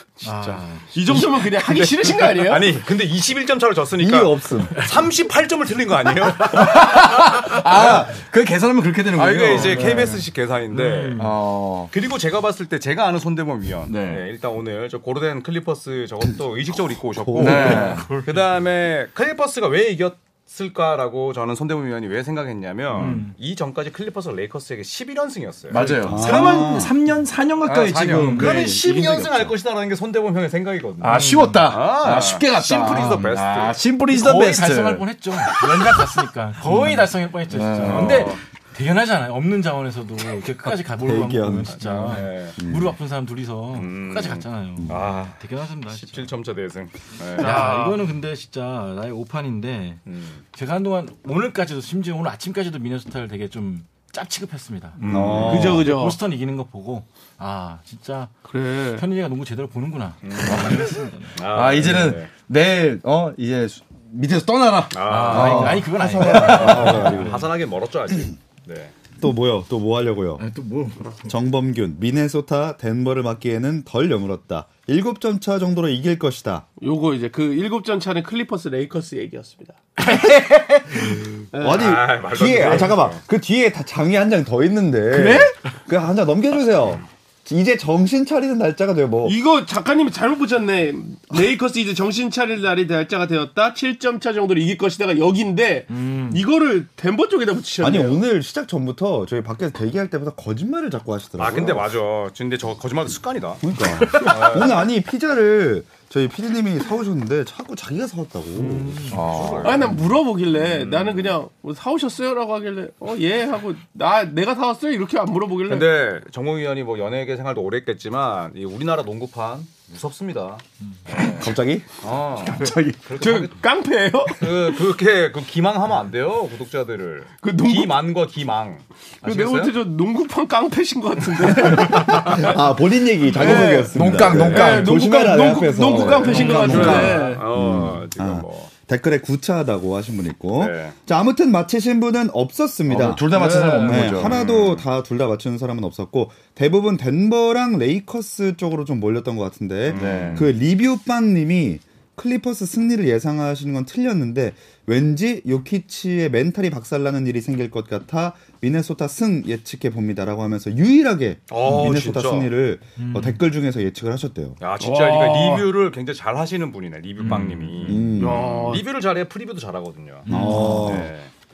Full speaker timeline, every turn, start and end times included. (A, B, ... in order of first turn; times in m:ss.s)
0:00.2-0:01.4 A
0:00.2-0:06.8 B
0:00.9-0:02.7 C
0:04.0-0:04.9 D
0:06.5-0:10.1 E
0:07.7-0:08.1 B
0:09.2-0:11.3 B
0:09.5-0:10.2 A
0:10.7-0:11.3 A
0:11.2-0:11.9 E
0:11.9-0:26.7 B
0:13.9-0:14.2 E
0:17.2-0:18.0 D
0:17.4-0:18.1 E
0:17.4-0:18.4 A
0:23.0-0:23.3 A
0:23.0-0:23.2 E
0:25.7-0:29.6 E
0:26.0-0:26.9 D
0:27.6-0:33.8 B
0:28.1-0:28.7 A
0:31.0-0:38.3 E
0:31.1-0:31.7 A
0:33.0-0:33.3 A
0:34.1-0:46.3 A
0:37.8-0:38.4 B
0:41.0-0:41.8 D
0:41.7-0:42.6 B
0:42.6-0:43.0 D
0:43.8-0:45.4 B
0:45.9-0:47.7 B
0:47.4-0:58.4 A
0:47.4-0:48.0 C
0:50.1-0:50.4 B
0:55.0-0:55.8 E
0:55.1-0:55.9 D
0:55.4-0:56.2 C
0:58.5-0:59.0 C
0:58.9-1:01.4 A
1:00.2-1:02.3 B
1:01.5-1:07.2 E
1:04.9-1:05.8 B
1:05.1-1:07.5 A
1:05.4-1:07.4 D
1:06.4-1:08.9 B
1:09.2-1:10.4 D
1:10.4-1:11.2 A
1:11.3-1:16.6 D
1:16.8-1:19.8 C
1:20.0-1:29.4 D
1:21.5-1:21.9 C
1:21.7-1:23.2 B
1:25.1-1:25.5 E
1:29.2-1:38.2 C
1:35.9-1:36.4 A
1:37.8-1:41.9 D
1:41.4-1:44.8 B
1:43.6-1:49.2 D
1:48.6-1:49.2 A
1:49.1-1:50.0 B
1:49.1-1:49.9 E
1:49.6-1:55.9 C
1:50.5-1:51.3 B
1:55.7-2:01.5 B
2:01.2-2:01.9 D
2:02.0-2:03.6 B
2:02.4-2:03.0 E
2:03.2-2:04.8 C
2:04.3-2:09.8 B
2:07.4-2:08.0 C
2:09.2-2:12.5 C
2:11.5-2:44.6 D
2:13.4-2:17.4 C
2:13.4-2:17.2 E
2:14.1-2:14.8 B
2:16.3-2:18.7 B
2:16.3-2:16.9 A
2:20.6-2:21.0 B
2:22.9-2:24.4 E
2:23.3-2:24.2 C
2:24.2-2:24.8 B
2:29.9-2:30.5 B
2:29.9-2:30.5 E
2:41.5-2:42.5 B
2:43.0-2:43.4 A
2:44.6-2:51.3 B
2:44.8-2:45.7 C
2:47.2-2:47.9 A
2:47.9-2:48.4 D
2:48.2-2:48.8 C
2:50.3-2:50.9 A
2:50.3-2:51.1 D
2:50.8-2:51.1 E